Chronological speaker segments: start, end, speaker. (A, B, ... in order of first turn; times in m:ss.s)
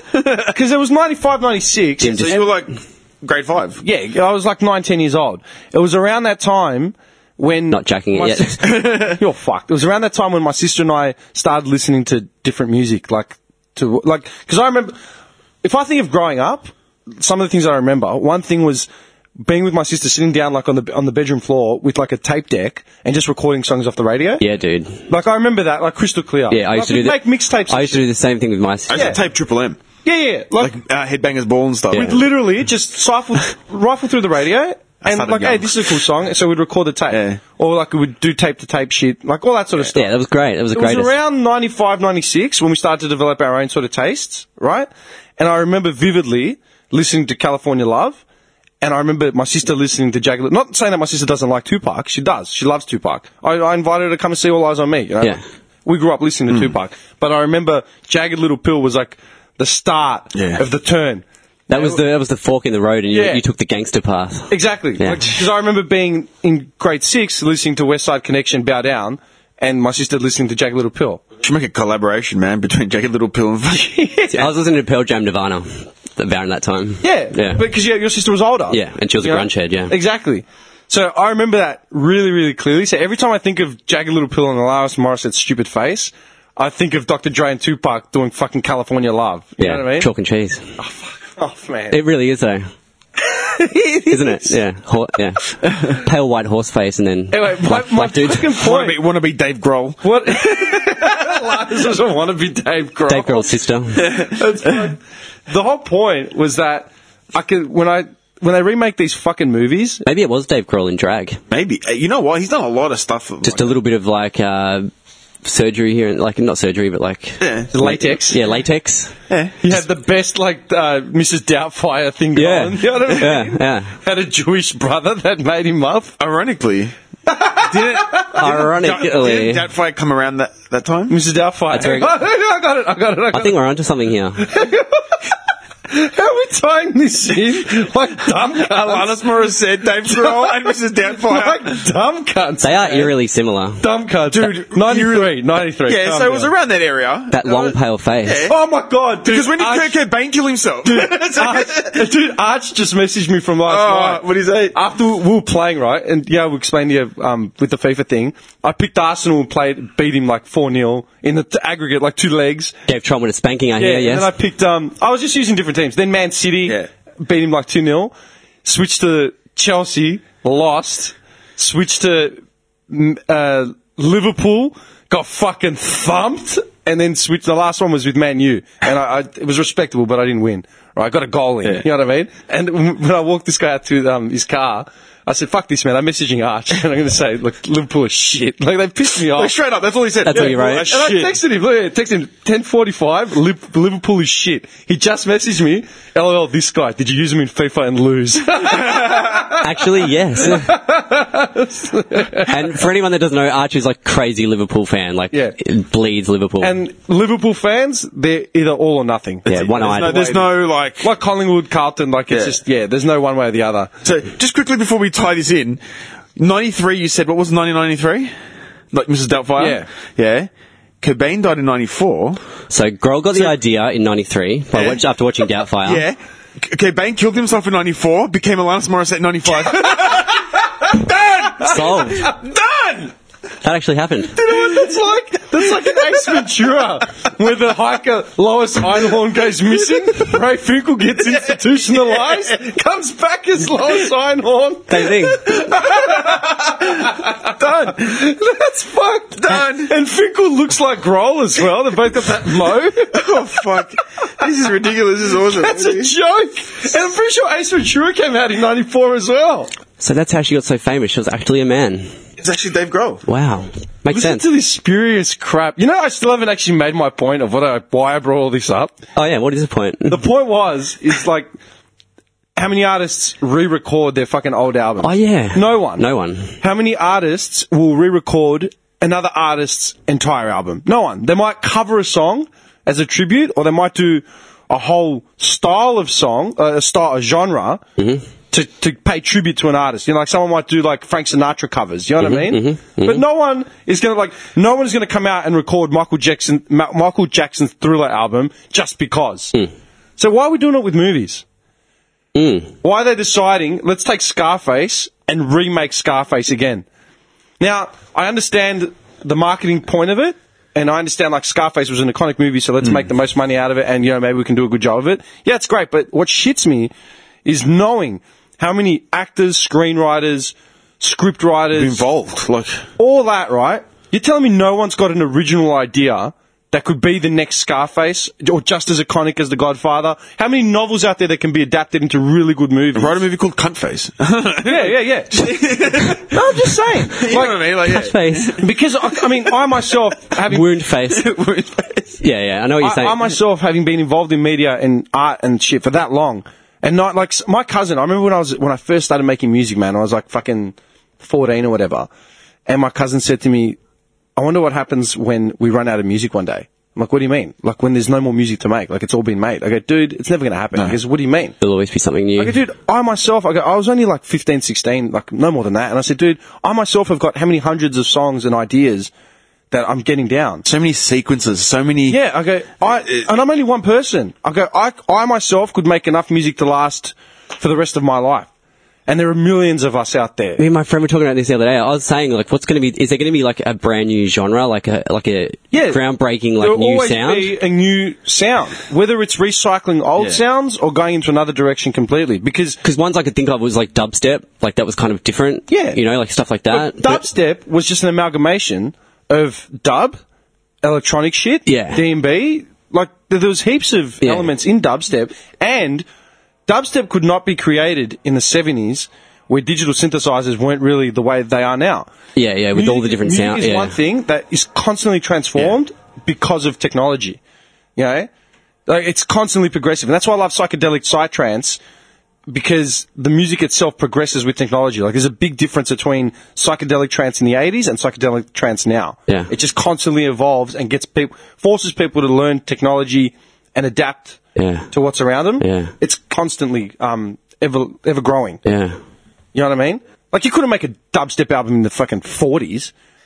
0:00.1-0:00.5 A
0:00.5-0:02.4 B
0:02.0-0:02.4 C
0:02.1-0:03.8 A
0:03.8-0:15.0 B
0:07.7-0:08.6 C
0:08.6-0:09.2 A
0:15.6-0:18.9 B
0:19.4-0:24.4 B
0:24.4-0:25.0 C
0:25.1-0:28.1 B
0:26.5-0:29.2 C
0:28.9-0:29.8 A
0:30.0-0:30.7 B
0:30.6-0:32.2 A
0:31.9-0:40.0 B
0:35.0-0:36.0 A
0:37.1-0:37.4 A
0:39.9-0:41.2 C
0:40.7-0:48.2 B
0:48.8-1:02.0 B
1:00.3-1:00.6 A
1:01.7-1:05.3 C
1:03.1-1:03.4 B
1:04.5-1:11.2 B
1:11.4-1:14.5 A
1:13.7-1:14.4 B
1:14.3-1:17.6 C
1:17.0-1:30.1 B
1:18.7-1:19.9 C
1:29.6-1:30.7 C
1:30.8-1:32.0 B
1:31.9-1:32.7 C
1:33.2-1:34.6 B
1:34.1-1:38.6 C
1:37.3-1:39.0 B
1:38.6-1:40.5 A
1:40.0-1:45.0 B
1:43.1-1:44.1 C
1:44.0-1:44.7 A
1:45.5-1:50.0 B
1:50.0-1:51.4 C
1:51.5-1:53.8 A
1:53.4-1:54.9 C
1:55.4-1:59.1 C
1:57.4-1:57.7 A
1:57.7-1:58.4 B
1:59.3-1:59.5 A
1:59.6-2:06.2 B
2:02.4-2:03.9 C
2:06.2-2:06.9 A
2:07.3-2:08.4 B
2:07.6-2:11.2 A
2:08.4-2:09.7 C
2:11.1-2:13.6 B
2:11.7-2:12.2 C
2:13.3-2:14.5 C
2:14.4-2:15.2 B
2:15.9-2:19.2 B
2:18.6-2:21.8 A
2:20.1-2:23.1 B
2:22.6-2:23.8 C
2:23.8-2:26.5 B
2:24.3-2:28.6 A
2:27.3-2:28.5 C
2:28.5-2:30.0 B
2:29.2-2:32.1 A
2:30.8-2:42.8 B
2:33.6-2:34.8 A
2:42.9-2:44.3 C
2:43.8-2:48.1 B
2:48.6-2:52.4 B
2:52.9-3:09.5 B
3:09.3-3:11.3 A
3:10.2-3:11.0 C
3:10.3-3:19.7 B
3:18.6-3:19.5 A
3:19.6-3:20.8 C
3:20.4-3:22.8 B
3:22.4-3:26.8 C
3:26.6-3:30.4 B
3:29.5-3:30.4 C
3:29.7-3:31.1 A
3:31.0-3:33.9 B
3:32.3-3:32.6 A
3:34.0-3:35.8 A
3:36.4-3:38.3 A
3:38.9-3:40.5 A
3:39.6-3:39.9 B
3:41.0-3:42.4 A
3:42.7-3:46.0 C
3:44.7-3:45.0 A
3:45.8-3:52.6 A
3:49.7-3:50.4 B
3:51.6-3:52.9 B
3:51.6-3:52.4 C
3:53.6-3:54.4 C
3:54.4-4:13.2 B
3:54.5-3:54.9 A
4:04.9-4:06.0 C
4:07.6-4:08.0 A
4:09.4-4:09.9 A
4:13.1-4:16.1 A
4:15.5-4:19.7 B
4:20.0-4:22.1 C
4:22.4-4:23.2 A
4:23.3-4:24.5 C
4:24.1-4:29.0 B
4:29.2-4:30.2 C
4:30.1-4:31.5 B
4:32.6-4:36.1 B
4:35.0-4:36.5 C
4:36.6-4:47.8 B
4:48.0-4:48.2 C
4:48.5-4:59.6 B
4:52.2-4:53.2 C
5:00.2-5:01.4 B
5:02.4-5:02.7 C
5:02.8-5:06.9 B
5:07.6-5:16.9 B
5:17.4-5:22.0 B
5:21.7-5:22.8 A
5:23.0-5:33.2 B
5:33.0-5:36.3 A
5:34.6-5:35.3 B
5:36.3-5:37.6 B
5:37.1-5:38.6 A
5:37.8-5:38.6 C
5:38.6-5:40.7 B
5:40.5-5:41.3 C
5:41.1-5:42.1 A
5:42.2-5:43.4 C
5:42.8-5:52.1 B
5:52.7-5:53.8 B
5:54.4-6:01.6 B
6:01.6-6:02.6 C
6:02.4-6:09.1 B
6:09.7-6:10.6 B
6:10.6-6:12.2 A
6:12.1-6:18.5 B
6:19.1-6:20.6 B
6:20.6-6:27.6 C
6:25.7-6:26.0 B
6:26.6-6:32.8 B
6:32.8-6:37.2 C
6:35.7-6:36.0 B
6:36.7-6:40.2 B
6:40.8-6:46.0 B
6:41.7-6:42.0 C
6:44.2-6:44.5 C
6:46.7-6:52.1 B
6:52.4-6:54.0 C
6:52.7-6:57.4 B
6:58.0-6:58.3 B
6:58.9-7:01.8 B
7:02.5-7:14.4 B
7:14.6-7:14.9 C
7:14.9-7:18.6 B
7:15.6-7:15.9 C
7:18.6-7:19.0 C
7:19.5-7:22.9 B